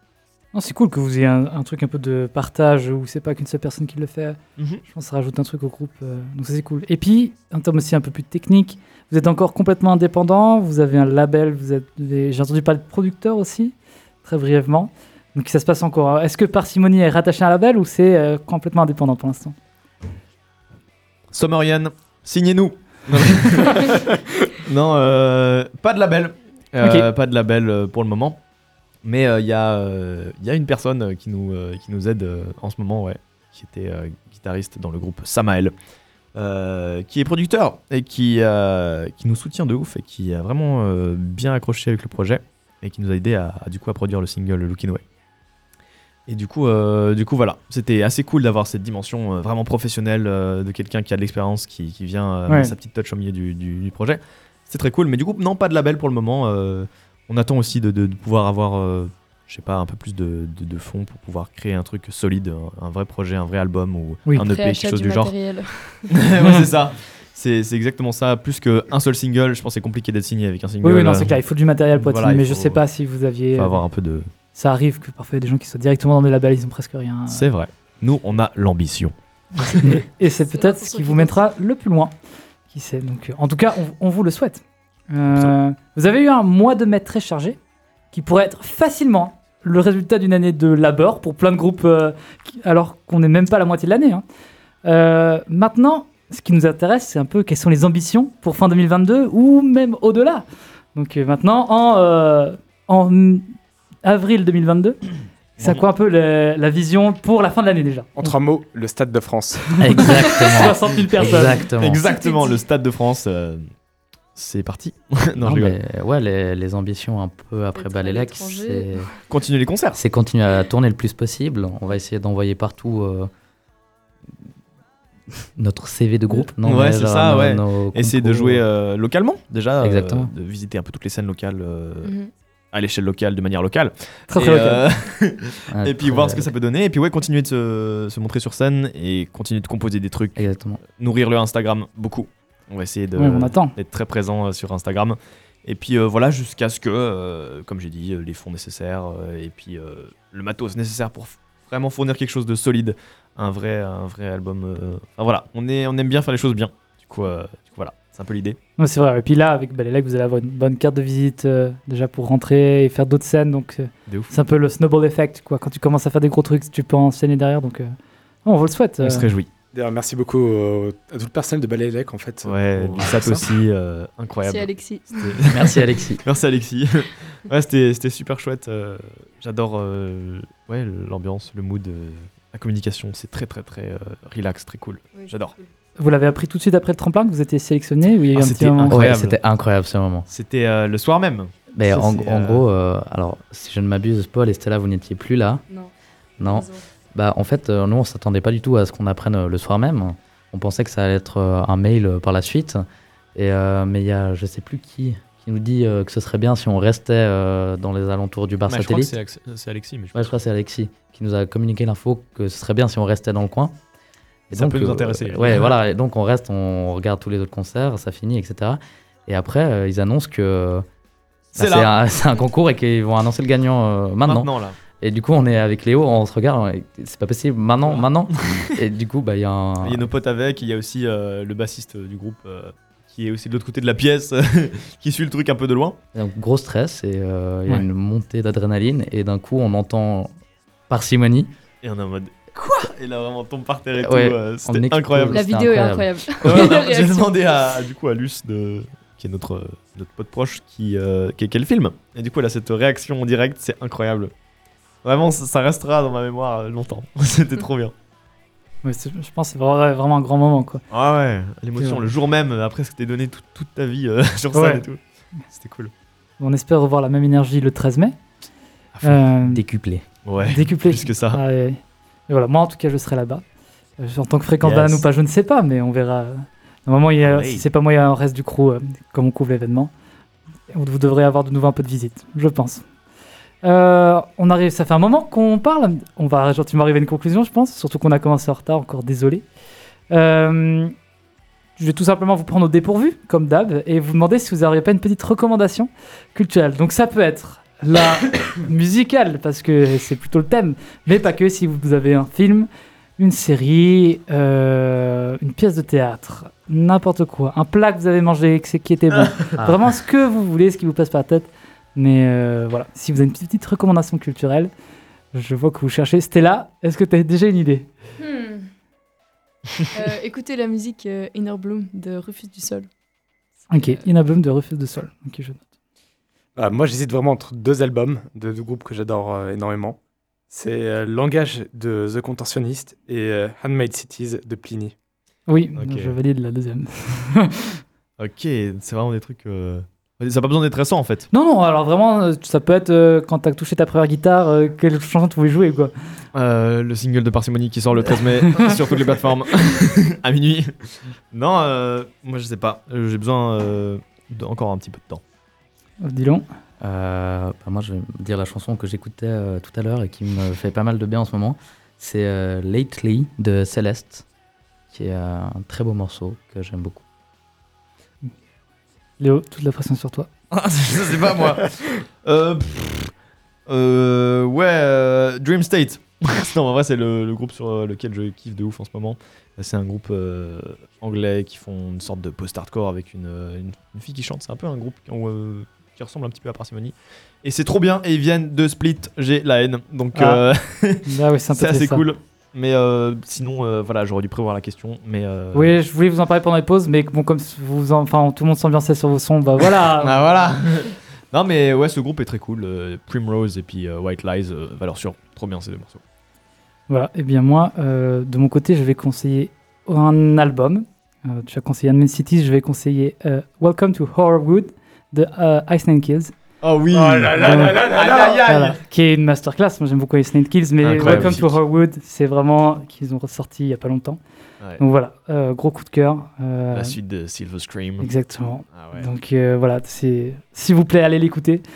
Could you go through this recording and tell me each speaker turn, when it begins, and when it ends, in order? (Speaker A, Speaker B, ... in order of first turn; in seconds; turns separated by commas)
Speaker A: 0.5-19.5, Speaker B: 4.6-4.8, Speaker B: 21.3-28.4, Speaker A: 26.8-27.1, Speaker B: 29.0-35.7, Speaker B: 36.3-45.0, Speaker B: 46.3-65.3, Speaker A: 52.5-52.7, Speaker C: 64.4-66.1, Speaker B: 66.1-71.4, Speaker A: 70.8-73.8, Speaker B: 71.9-72.8, Speaker B: 73.5-74.3, Speaker A: 74.5-77.5, Speaker B: 77.3-80.0, Speaker A: 79.8-82.1, Speaker C: 80.3-81.5, Speaker A: 82.7-87.6, Speaker A: 88.1-94.2, Speaker A: 94.8-105.0, Speaker A: 105.6-108.3, Speaker B: 105.6-105.8, Speaker D: 108.2-110.1, Speaker E: 109.8-112.0, Speaker A: 109.8-111.6, Speaker B: 111.8-113.7, Speaker C: 112.0-112.6, Speaker B: 114.3-115.8, Speaker E: 115.4-119.1, Speaker C: 117.7-119.2, Speaker B: 119.3-120.0, Speaker E: 120.0-123.3, Speaker E: 125.4-128.6, Speaker B: 126.6-132.1, Speaker E: 129.8-130.3, Speaker C: 132.0-132.3, Speaker B: 132.7-158.6, Speaker A: 134.3-134.8, Speaker E: 135.7-136.5, Speaker E: 140.4-140.8, Speaker A: 143.2-143.7, Speaker A: 158.8-167.9, Speaker B: 164.1-164.3, Speaker A: 168.4-169.3, Speaker B: 169.0-169.5, Speaker D: 169.7-173.4, Speaker B: 172.4-185.5, Speaker C: 174.4-175.5, Speaker E: 175.5-176.2, Speaker C: 185.1-185.7, Speaker A: 186.0-189.1, Speaker B: 188.3-189.4, Speaker E: 188.9-190.3, Speaker B: 190.3-192.7, Speaker E: 191.7-195.6, Speaker C: 195.7-196.8, Speaker E: 196.4-209.1, Speaker B: 208.7-210.3, Speaker E: 210.1-213.7, Speaker E: 214.5-220.8, Speaker B: 214.5-215.8, Speaker B: 221.5-221.9, Speaker E: 221.5-224.5, Speaker B: 224.2-224.8, Speaker E: 225.0-230.1, Speaker B: 229.8-236.0, Speaker E: 236.1-240.3, Speaker E: 240.9-241.5, Speaker B: 241.8-245.5, Speaker E: 244.0-246.7, Speaker C: 245.3-247.3, Speaker B: 246.4-254.3, Speaker B: 255.0-257.9, Speaker A: 258.8-260.8, Speaker B: 260.9-265.9, Speaker A: 261.8-262.1, Speaker A: 264.5-264.8, Speaker A: 266.4-268.2, Speaker B: 268.9-269.2, Speaker A: 269.0-269.6, Speaker E: 269.4-270.1, Speaker B: 270.2-271.4, Speaker A: 270.4-273.4, Speaker A: 274.0-279.9, Speaker B: 274.6-275.0, Speaker B: 277.2-277.7, Speaker A: 280.7-282.8, Speaker A: 283.6-289.4, Speaker A: 290.1-290.9, Speaker A: 291.8-314.7, Speaker A: 315.3-317.9, Speaker C: 318.2-318.7, Speaker C: 319.9-322.9, Speaker C: 323.7-324.1, Speaker A: 323.7-325.6, Speaker D: 326.6-330.0, Speaker D: 330.5-334.9, Speaker A: 335.5-337.8, Speaker B: 335.7-336.1, Speaker B: 338.2-341.3, Speaker A: 341.3-345.9, Speaker B: 346.3-355.2, Speaker A: 356.0-356.4, Speaker E: 356.8-364.2, Speaker E: 364.9-367.0, Speaker A: 369.2-370.3, Speaker B: 370.5-373.1, Speaker B: 373.7-395.7, Speaker A: 390.1-390.4, Speaker A: 391.0-392.0, Speaker A: 395.5-400.2, Speaker B: 400.0-406.0, Speaker A: 406.9-416.3, Speaker B: 416.6-418.8, Speaker D: 416.9-418.4, Speaker A: 417.4-417.8, Speaker A: 418.4-424.2, Speaker B: 420.8-421.6, Speaker A: 424.8-427.0, Speaker B: 426.7-428.1, Speaker A: 428.0-431.6, Speaker B: 428.7-429.1